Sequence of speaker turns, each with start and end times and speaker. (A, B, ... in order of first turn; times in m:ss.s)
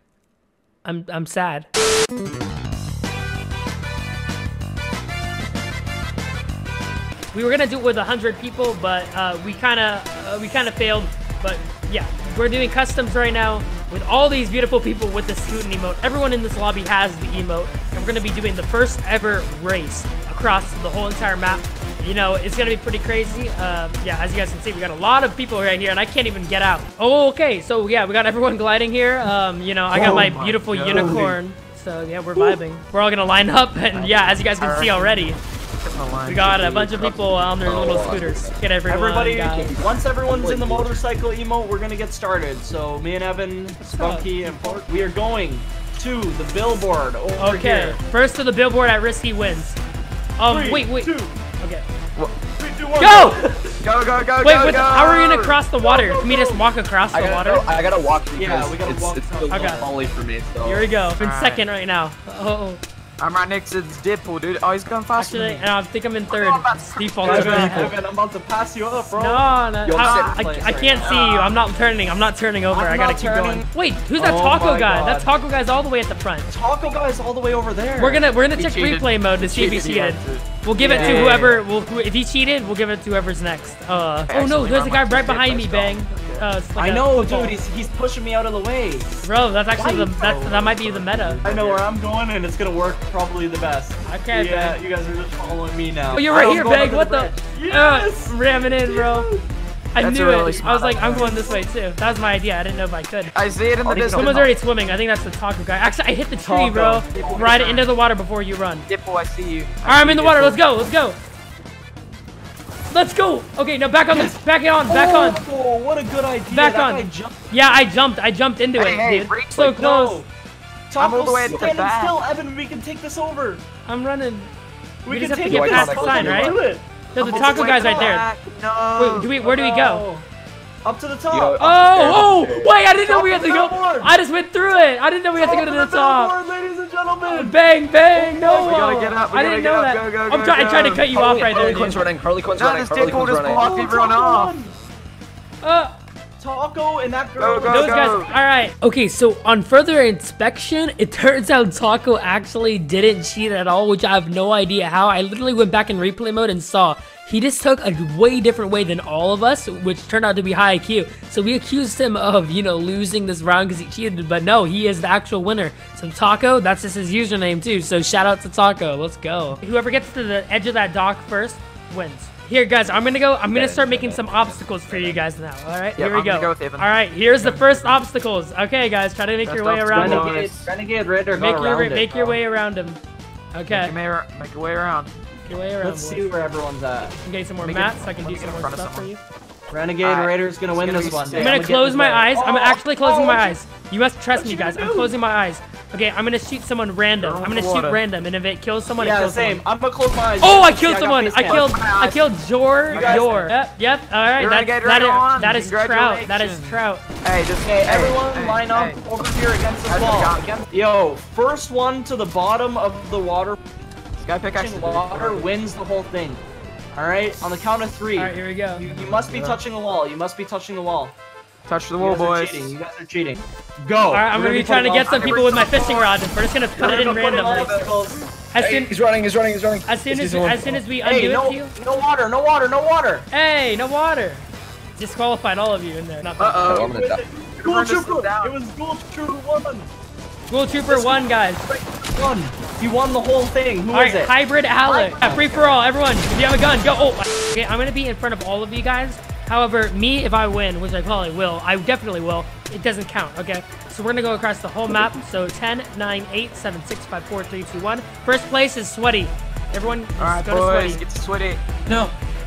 0:00.8-0:01.7 A
0:07.3-0:35.4 A
0:29.9-0:30.3 B
0:29.9-0:31.3 C
0:30.9-0:31.3 B
0:33.9-0:35.1 C
0:35.8-0:36.5 C
0:36.2-0:39.7 A
0:36.4-0:38.6 D
0:38.9-0:48.0 B
0:39.5-0:41.0 D
0:43.9-0:44.7 A
0:47.4-0:49.8 A
0:50.4-0:51.8 A
0:50.4-0:51.4 B
0:52.6-0:53.4 B
0:53.0-0:53.8 A
0:53.8-0:55.6 C
0:54.4-0:57.7 A
0:55.8-0:56.7 B
0:57.1-1:00.8 D
0:58.3-0:59.9 B
0:59.5-0:59.8 A
1:00.6-1:02.8 A
1:01.2-1:01.6 C
1:03.2-1:05.6 C
1:05.2-1:08.0 A
1:06.3-1:07.9 C
1:07.2-1:11.6 B
1:09.1-1:16.5 A
1:09.8-1:10.4 D
1:12.7-1:13.6 B
1:14.2-1:15.3 B
1:16.5-1:18.2 B
1:18.0-1:27.6 A
1:18.5-1:21.5 C
1:20.8-1:21.6 B
1:24.3-1:26.5 C
1:26.8-1:29.1 B
1:29.2-1:31.4 A
1:29.7-1:39.4 B
1:31.4-1:31.8 C
1:34.0-1:34.8 A
1:36.1-1:39.3 A
1:39.9-1:43.3 A
1:40.0-1:41.3 C
1:41.0-1:41.6 B
1:43.3-1:44.5 C
1:43.8-1:44.4 B
1:44.0-1:48.9 A
1:46.4-1:47.9 B
1:48.9-1:50.6 C
1:49.8-1:51.2 A
1:52.9-1:55.4 A
1:54.9-1:57.3 B
1:56.5-2:00.2 A
1:58.8-1:59.7 C
1:59.6-2:00.3 B
2:00.9-2:03.6 B
2:01.0-2:02.2 C
2:01.5-2:01.8 D
2:03.8-2:04.5 A
2:05.0-2:08.2 B
2:05.1-2:06.6 A
2:05.5-2:06.6 D
2:07.1-2:08.2 A
2:07.2-2:09.3 C
2:09.0-2:10.0 A
2:09.4-2:10.2 B
2:10.8-2:12.2 B
2:11.3-2:12.7 D
2:11.6-2:16.3 A
2:12.9-2:14.1 B
2:15.4-2:17.6 B
2:17.3-2:22.0 A
2:18.1-2:18.7 B
2:18.4-2:21.4 C
2:21.1-2:23.7 D
2:22.6-2:24.5 C
2:23.1-2:24.7 B
2:25.6-2:25.9 A
2:26.4-2:28.1 B
2:27.4-2:28.3 C
2:27.6-3:00.3 A
2:53.5-2:55.2 D
2:56.0-2:56.9 C
2:57.4-2:57.9 C
2:59.4-3:00.7 C
2:59.9-3:02.4 B
3:01.4-3:03.0 A
3:03.5-3:03.9 A
3:03.7-3:05.1 C
3:05.4-3:06.2 A
3:05.8-3:07.2 B
3:07.2-3:09.1 A
3:07.6-3:09.2 C
3:09.7-3:13.6 B
3:10.0-3:11.6 C
3:11.4-3:19.6 A
3:14.3-3:15.1 B
3:17.2-3:18.0 C
3:19.0-3:21.8 B
3:20.4-3:27.0 A
3:21.4-3:22.3 C
3:22.9-3:23.5 C
3:22.9-3:23.5 B
3:24.4-3:29.0 C
3:27.6-3:33.6 B
3:29.9-3:30.7 C
3:34.2-3:35.5 C
3:34.5-3:36.4 B
3:36.9-3:41.2 B
3:38.2-3:38.8 A
3:38.9-3:39.6 C
3:41.7-3:42.8 C
3:42.0-3:45.3 B
3:44.1-3:47.8 A
3:45.0-3:46.1 C
3:45.5-3:45.7 D
3:46.8-3:48.3 B
3:46.8-3:47.9 D
3:48.5-3:48.9 A
3:48.6-3:50.8 D
3:49.9-3:51.7 A
3:51.0-3:53.3 B
3:53.3-3:54.4 A
3:55.0-3:56.7 A
3:56.4-3:57.0 C
3:56.6-3:57.2 D
3:56.7-3:59.9 B
3:57.6-3:58.6 C
4:00.5-4:01.6 A
4:00.9-4:04.3 B
4:03.9-4:21.0 A
4:04.9-4:05.8 B
4:20.2-4:21.6 C
4:21.9-4:22.1 B